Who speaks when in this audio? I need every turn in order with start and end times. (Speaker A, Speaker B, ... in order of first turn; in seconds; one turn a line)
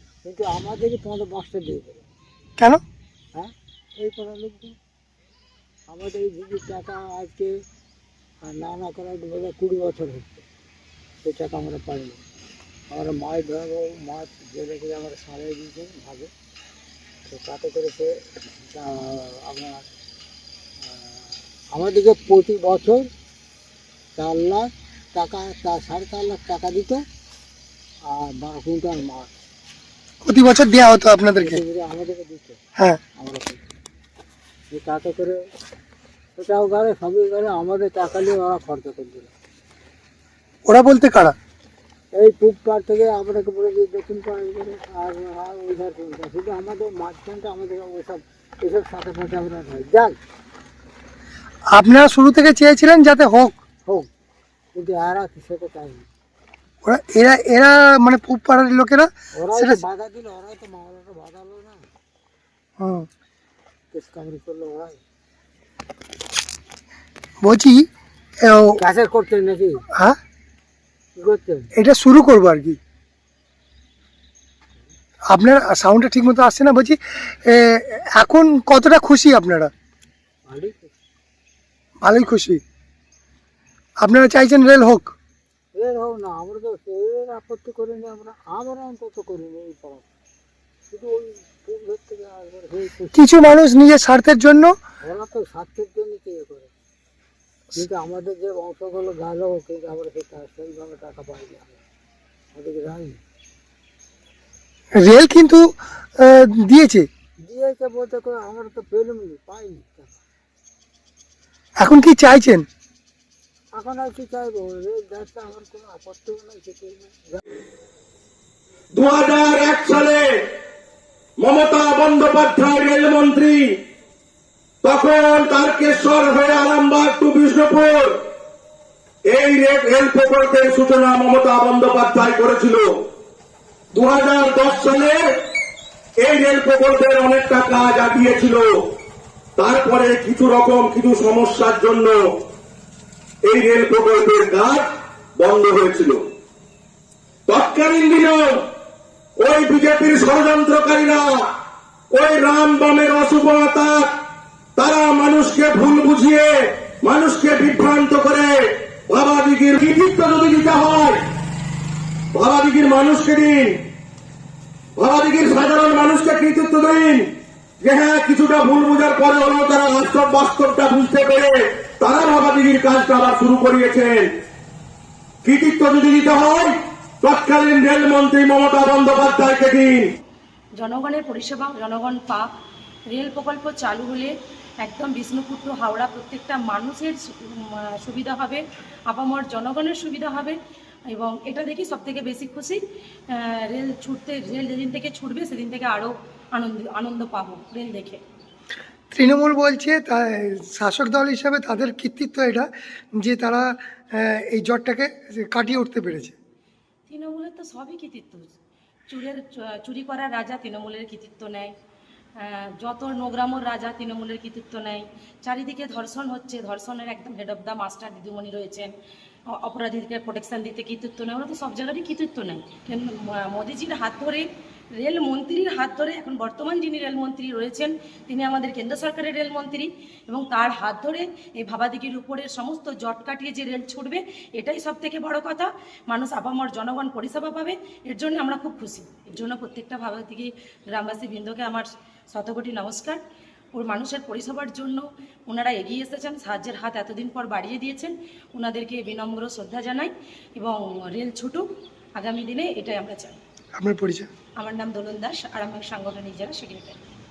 Speaker A: 0.2-2.1
Speaker A: 3.4-4.8
Speaker A: 5.9-7.6
Speaker A: 8.4-10.4
Speaker A: 11.2-12.2
Speaker A: 12.9-16.3
Speaker A: 17.3-19.9
Speaker A: 21.7-23.1
Speaker A: 24.2-27.0
Speaker A: 28.1-29.3
Speaker B: 30.2-31.6
Speaker A: 31.4-32.6
Speaker A: 33.2-33.7
Speaker A: 34.7-35.4
Speaker A: 36.4-39.3
Speaker B: 40.7-41.4
Speaker A: 42.1-50.2
Speaker B: 51.7-53.6
Speaker A: 54.7-56.1
Speaker B: 56.8-59.8
Speaker A: 59.4-61.9
Speaker B: 62.8-63.1
Speaker A: 63.9-65.0
Speaker B: 67.4-67.9
Speaker B: 68.5-68.8
Speaker A: 68.8-69.8
Speaker B: 69.9-70.2
Speaker A: 71.2-71.7
Speaker B: 71.8-72.8
Speaker B: 75.3-79.7
Speaker A: 80.5-80.9
Speaker B: 82.0-82.6
Speaker B: 84.0-85.1
Speaker A: 85.8-90.1
Speaker A: 90.9-93.3
Speaker B: 93.1-94.7
Speaker A: 95.0-96.7
Speaker A: 97.8-101.8
Speaker A: 102.5-103.2
Speaker B: 105.0-105.7
Speaker B: 106.2-107.1
Speaker A: 107.5-110.2
Speaker B: 111.8-112.7
Speaker A: 113.7-117.4
Speaker C: 118.9-120.6
Speaker C: 121.4-123.8
Speaker C: 124.8-128.3
Speaker C: 129.2-133.1
Speaker C: 133.9-135.5
Speaker C: 136.2-139.0
Speaker C: 139.6-142.5
Speaker C: 143.4-146.3
Speaker C: 147.5-148.7
Speaker C: 149.4-161.3
Speaker C: 162.3-163.9
Speaker C: 165.0-174.4
Speaker C: 175.4-180.1
Speaker D: 180.8-182.5
Speaker D: 183.1-190.6
Speaker D: 191.1-198.2
Speaker B: 199.1-206.3
Speaker D: 207.1-208.5
Speaker D: 209.1-211.7
Speaker D: 212.4-218.9
Speaker D: 219.6-224.5
Speaker D: 225.0-243.2
Speaker D: 243.7-251.7
Speaker D: 252.2-253.4
Speaker B: 253.8-254.3
Speaker D: 254.6-257.0